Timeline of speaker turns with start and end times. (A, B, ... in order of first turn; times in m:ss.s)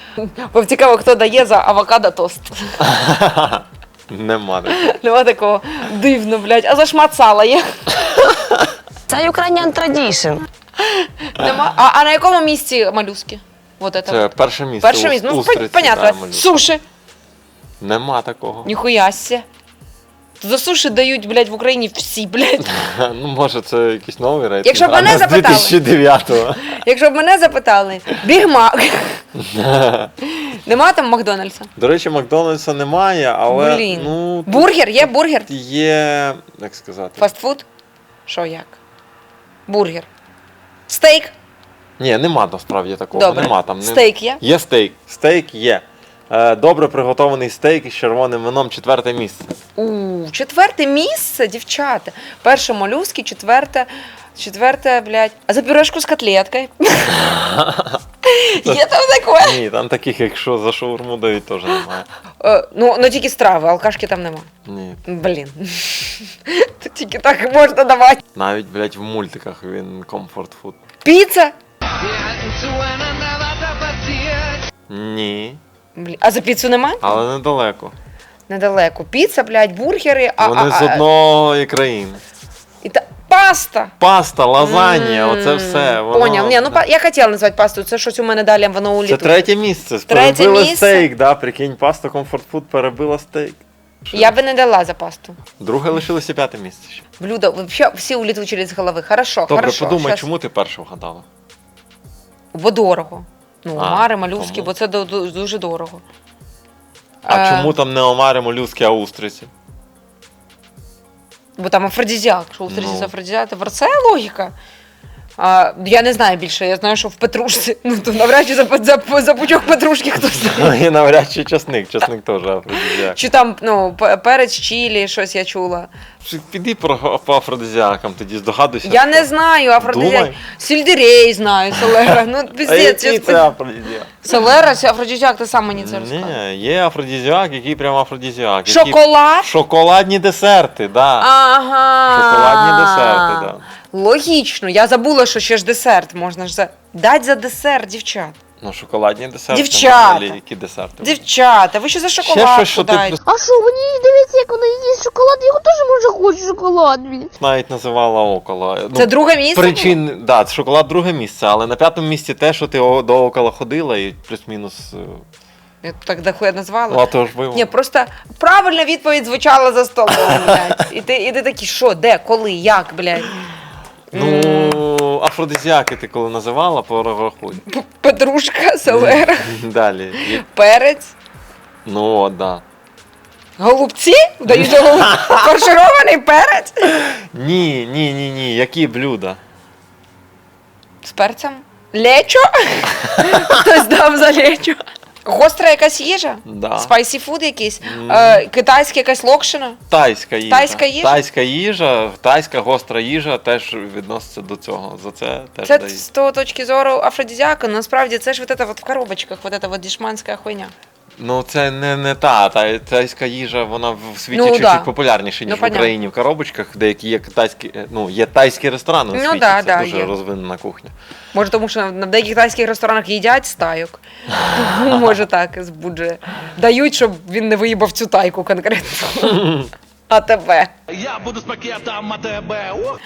0:00.2-0:02.6 A
0:02.8-0:04.9 B
0:04.7-0:07.7 A
0:09.1-0:10.4 C
0:11.0-0:16.8 A
0:14.0-0:16.6 B
0:17.8-0:18.7 B
0:18.6-0:19.4 A
0:20.4-0:22.8 A
0:22.7-0:26.6 B
0:24.6-0:25.8 A
0:26.7-0:29.2 A
0:29.4-0:30.1 B
0:30.4-0:31.7 A
0:31.8-0:37.3 B
0:33.5-0:35.5 A
0:37.2-0:37.6 A
0:38.2-0:38.8 A
0:39.7-0:40.1 A
0:40.9-0:41.3 A
0:42.0-0:49.5 B
0:43.1-0:44.4 A
0:49.8-0:57.2 A
0:57.1-0:58.0 B
0:58.2-0:59.6 A
0:59.4-1:02.1 B
1:02.4-1:04.5 A
1:04.6-1:05.0 B
1:05.1-1:08.2 A
1:08.3-1:10.8 B
1:11.0-1:11.5 A
1:12.0-1:14.6 C
1:14.9-1:15.6 B
1:15.9-1:17.2 A
1:17.0-1:17.9 B
1:18.5-1:21.0 A
1:20.4-1:22.2 B
1:22.8-1:23.9 A
1:24.0-1:26.8 B
1:24.6-1:29.5 A
1:29.0-1:33.6 B
1:30.1-1:31.1 A
1:34.1-1:35.4 A
1:35.6-1:37.0 B
1:37.2-1:40.2 A
1:39.5-1:41.2 B
1:42.5-1:46.0 A
1:43.8-1:44.7 B
1:47.2-1:47.7 A
1:47.3-1:49.5 B
1:51.6-1:54.5 A
1:52.7-1:53.1 B
1:55.4-2:00.7 A
2:00.3-2:03.2 B
2:03.1-2:05.9 A
2:06.2-2:10.4 B
2:08.8-2:13.4 A
2:11.9-2:14.2 B
2:14.2-2:16.4 A
2:15.8-2:21.3 B
2:18.7-2:19.5 A
2:21.2-2:28.4 A
2:22.1-2:23.7 B
2:28.6-2:31.2 B
2:29.5-2:30.4 A
2:31.0-2:33.2 A
2:32.2-2:33.2 B
2:33.2-2:37.3 D
2:37.4-2:45.2 B
2:38.9-2:40.0 A
2:45.8-2:53.3 A
2:46.9-2:47.7 B
2:54.1-2:54.8 A
2:54.1-2:57.6 B
2:57.7-2:59.5 A
2:58.9-3:00.4 B
3:00.3-3:01.1 A
3:01.8-3:02.6 B
3:03.6-3:06.9 A
3:04.5-3:05.4 B
3:07.1-3:09.4 B
3:11.0-3:19.8 A
3:16.4-3:16.9 B
3:17.8-3:18.4 B
3:19.9-3:26.0 B
3:20.5-3:21.2 A
3:25.6-3:30.7 A
3:31.2-3:40.9 B
3:34.3-3:34.9 A
3:35.4-3:35.9 A
3:39.1-3:40.2 A
3:41.3-3:50.7 A
3:51.0-3:53.0 E